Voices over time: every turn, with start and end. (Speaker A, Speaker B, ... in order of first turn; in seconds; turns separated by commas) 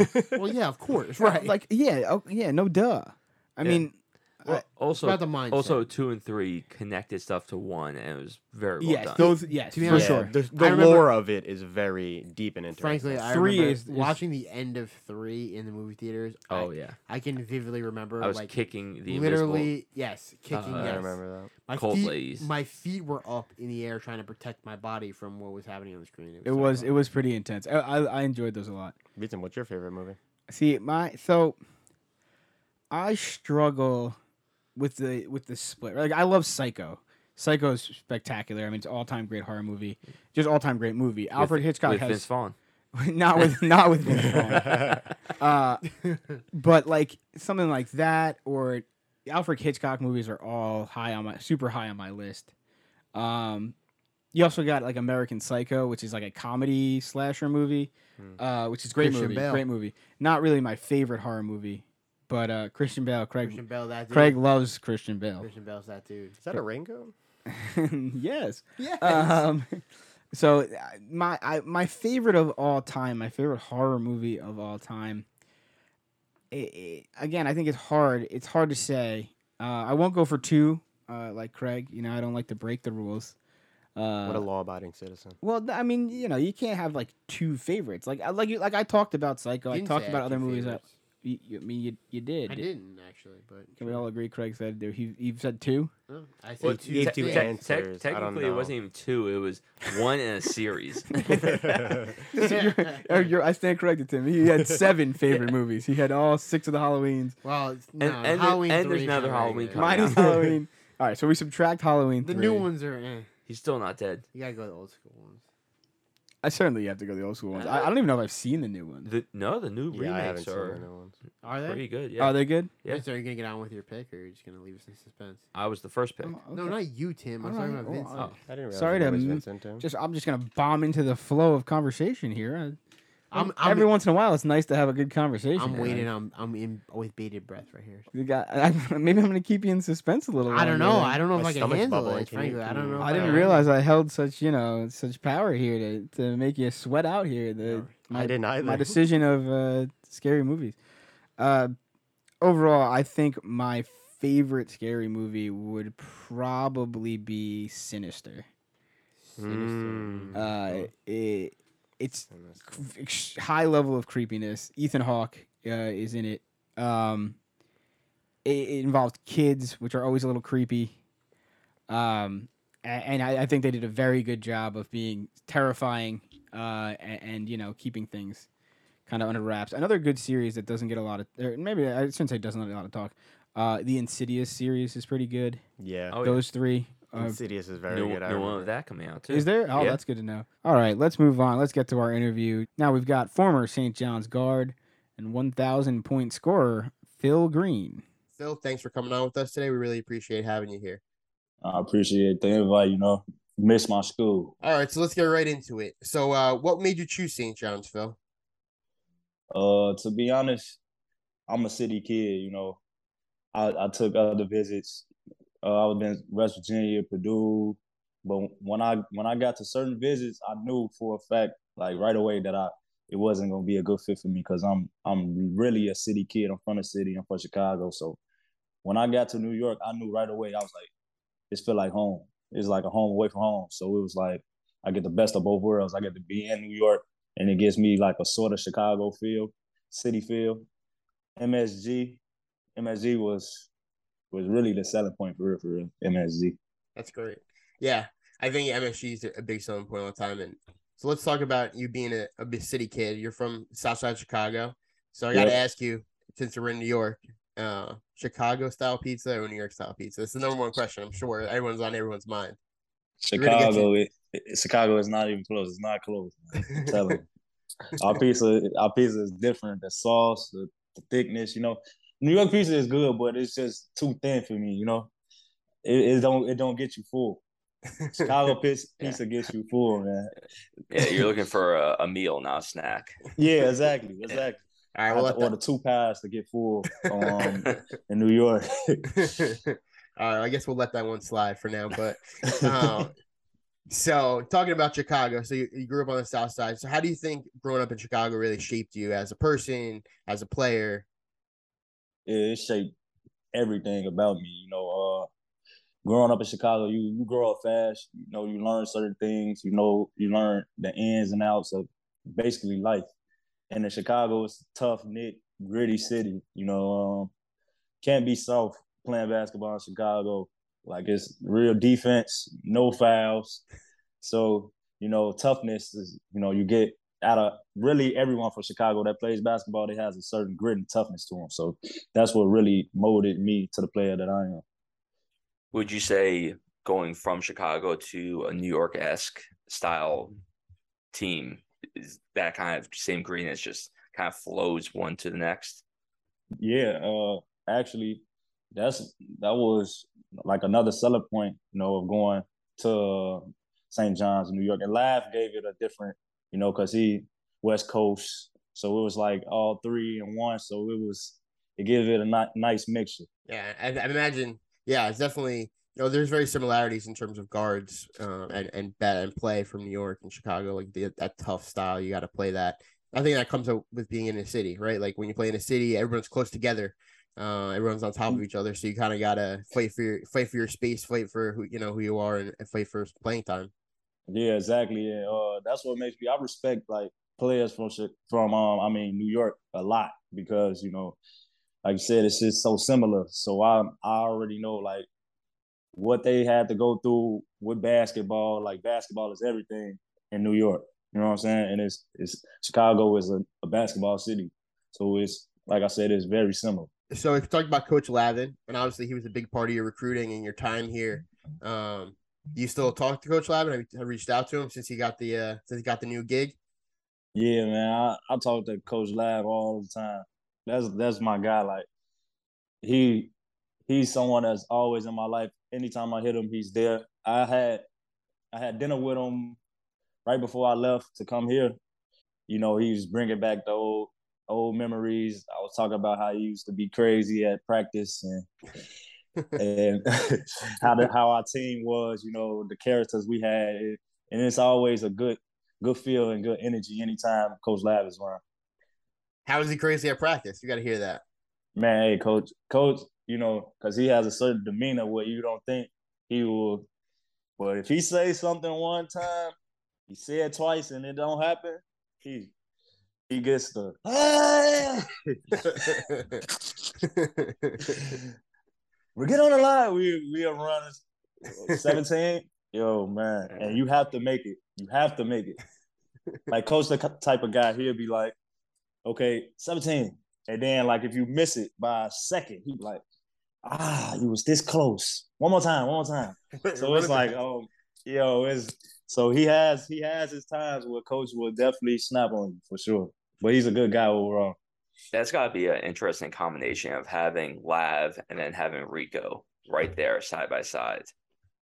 Speaker A: 0.3-1.5, Speaker B: 1.2-4.7, Speaker A: 4.5-5.9, Speaker C: 4.8-9.3, Speaker B: 8.8-10.3, Speaker A: 9.2-11.1, Speaker D: 9.8-13.2, Speaker A: 12.7-26.9, Speaker B: 13.3-14.2, Speaker C: 16.5-17.0, Speaker C: 18.2-19.7, Speaker C: 20.5-22.5, Speaker D: 20.7-21.6, Speaker B: 26.4-29.0, Speaker D: 29.2-30.2, Speaker B: 30.5-31.6, Speaker B: 32.9-34.2, Speaker B: 34.8-42.3, Speaker C: 41.4-42.6, Speaker B: 42.9-52.5, Speaker B: 53.1-53.7, Speaker B: 54.3-63.6, Speaker A: 59.0-59.6, Speaker A: 63.4-64.4, Speaker B: 64.1-65.5, Speaker A: 65.4-66.4, Speaker D: 66.4-67.1, Speaker B: 67.5-75.3, Speaker A: 68.8-69.4, Speaker B: 76.5-83.3, Speaker B: 84.0-84.5, Speaker D: 84.2-85.4, Speaker B: 85.4-92.7, Speaker A: 89.7-90.9, Speaker A: 92.5-94.0, Speaker B: 93.8-95.9, Speaker A: 96.1-97.5, Speaker D: 96.6-98.7, Speaker B: 96.9-97.2, Speaker C: 97.0-102.0, Speaker D: 101.5-102.1, Speaker B: 102.3-107.4, Speaker A: 102.3-103.3, Speaker A: 107.4-110.5, Speaker C: 108.0-110.3, Speaker B: 109.8-112.7, Speaker A: 112.2-113.3, Speaker C: 113.5-114.3, Speaker A: 114.3-115.4, Speaker B: 116.4-119.1, Speaker A: 117.5-117.9, Speaker C: 119.0-120.8, Speaker D: 119.9-121.2, Speaker A: 121.4-121.8, Speaker C: 121.5-123.0, Speaker B: 122.2-122.7, Speaker A: 122.9-125.5, Speaker C: 125.5-126.4, Speaker B: 126.2-132.8, Speaker A: 126.5-128.3, Speaker D: 128.4-129.9, Speaker A: 133.3-133.9, Speaker B: 133.3-136.1, Speaker A: 135.6-138.1, Speaker B: 138.1-141.2, Speaker A: 140.5-143.7, Speaker D: 141.3-143.5, Speaker B: 143.0-150.8, Speaker A: 147.6-147.9, Speaker D: 148.1-149.0, Speaker B: 151.4-151.8, Speaker B: 152.4-158.5, Speaker A: 159.3-160.4, Speaker D: 159.4-160.6, Speaker B: 160.3-167.4, Speaker D: 162.3-162.8, Speaker B: 168.4-171.0, Speaker B: 171.9-178.5, Speaker B: 179.1-185.6, Speaker D: 185.8-186.2, Speaker C: 186.1-186.5, Speaker B: 186.2-187.4, Speaker D: 187.1-188.7, Speaker C: 187.9-190.0, Speaker B: 189.3-198.0, Speaker E: 198.4-201.0, Speaker F: 201.6-204.5, Speaker E: 204.6-208.2, Speaker F: 209.5-210.8, Speaker F: 211.5-212.8, Speaker F: 213.5-215.1, Speaker F: 215.6-228.2, Speaker F: 228.8-230.9, Speaker F: 231.5-240.7, Speaker F: 241.4-242.2, Speaker F: 242.8-243.7, Speaker F: 244.3-246.6, Speaker E: 247.0-262.6, Speaker F: 255.3-255.6, Speaker F: 263.2-267.3, Speaker E: 263.3-263.9, Speaker F: 268.0-275.1, Speaker F: 275.8-277.4, Speaker E: 278.0-278.3, Speaker F: 278.1-280.3, Speaker C: 280.9-283.2, Speaker F: 280.9-281.3, Speaker F: 283.4-289.3, Speaker E: 284.9-285.5, Speaker E: 287.2-287.6, Speaker E: 289.1-293.1, Speaker F: 292.7-293.1, Speaker E: 293.9-301.1, Speaker F: 302.3-302.9, Speaker F: 303.5-305.3, Speaker F: 306.1-313.1, Speaker F: 313.7-317.3, Speaker F: 318.0-323.6, Speaker F: 324.2-334.6, Speaker C: 335.7-340.4, Speaker C: 341.1-345.8, Speaker F: 346.6-348.2, Speaker F: 348.7-363.3, Speaker E: 363.5-383.7, Speaker F: 384.3-391.2, Speaker F: 391.9-395.1, Speaker F: 395.9-406.9, Speaker E: 407.1-416.6, Speaker F: 417.4-421.9, Speaker F: 422.8-423.3, Speaker F: 423.9-427.8, Speaker F: 428.5-429.6, Speaker F: 430.3-431.8, Speaker F: 432.5-438.5, Speaker F: 439.6-448.4, Speaker E: 449.5-451.2, Speaker F: 451.8-456.9, Speaker F: 457.6-459.5, Speaker F: 460.1-462.5, Speaker F: 463.3-466.1, Speaker E: 465.7-466.4, Speaker E: 467.0-468.2, Speaker F: 467.9-468.2, Speaker F: 469.2-475.6, Speaker F: 476.5-478.4, Speaker F: 479.1-483.0, Speaker F: 483.6-494.6, Speaker E: 486.6-487.3, Speaker C: 495.1-501.1